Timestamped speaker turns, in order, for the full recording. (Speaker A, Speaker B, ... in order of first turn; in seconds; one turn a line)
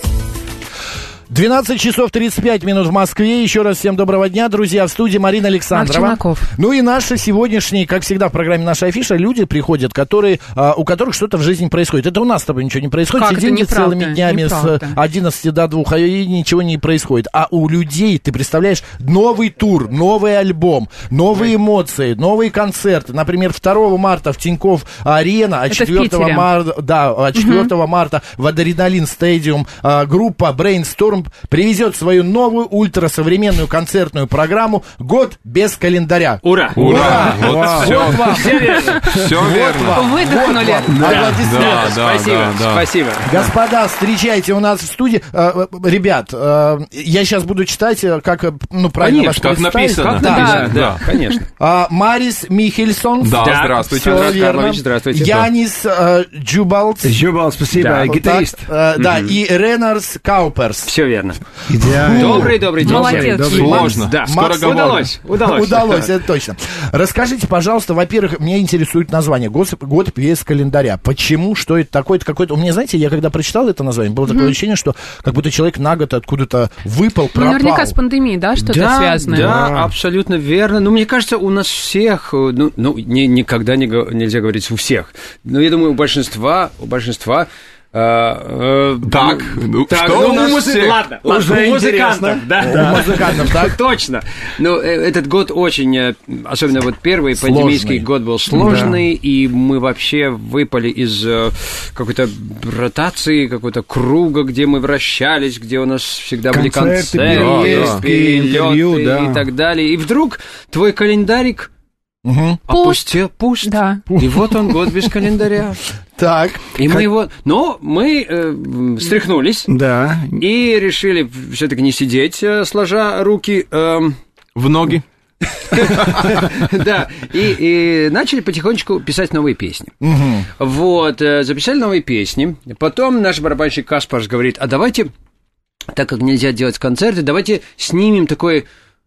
Speaker A: 1.3-42.0
Speaker B: 5.7-6.5
Speaker B: 13.1-14.9
Speaker B: 25.7-26.4
Speaker B: 27.3-27.7
Speaker C: 36.4-39.0
Speaker D: 36.7-38.5
Speaker E: 36.8-38.0
Speaker B: 38.5-39.0
Speaker D: 39.0-40.0
Speaker B: 39.9-41.0
Speaker E: 40.9-41.3
Speaker C: 41.0-43.5
Speaker D: 41.3-42.8
Speaker A: 43.2-50.8
Speaker C: 49.0-51.5
Speaker D: 49.4-51.0
Speaker B: 50.2-51.3
Speaker A: 51.6-57.2
Speaker D: 53.2-54.4
Speaker C: 53.4-55.5
Speaker E: 57.0-58.7
Speaker C: 57.7-58.2
Speaker A: 58.0-60.9
Speaker C: 59.0-59.3
Speaker C: 60.8-61.4
Speaker E: 61.7-63.8
Speaker A: 61.8-62.5
Speaker C: 62.0-66.1
Speaker B: 62.8-63.9
Speaker A: 63.4-78.0
Speaker D: 63.5-65.1
Speaker B: 77.3-79.5
Speaker C: 78.6-111.7
Speaker E: 79.3-79.9
Speaker D: 89.0-91.0
Speaker E: 90.1-90.6
Speaker E: 91.2-93.4
Speaker A: 92.6-93.8
Speaker A: 97.3-98.0
Speaker E: 98.5-99.0
Speaker E: 106.5-109.4
Speaker D: 107.2-108.0
Speaker A: 112.2-112.6
Speaker C: 112.7-115.8
Speaker B: 112.7-113.0
Speaker B: 113.6-114.0
Speaker A: 114.1-115.2
Speaker A: 116.2-116.8
Speaker C: 116.7-119.7
Speaker E: 119.7-120.4
Speaker C: 120.3-124.2
Speaker D: 124.5-125.0
Speaker D: 125.6-126.3
Speaker C: 125.7-129.9
Speaker A: 130.0-130.5
Speaker C: 130.5-135.1
Speaker C: 135.9-138.7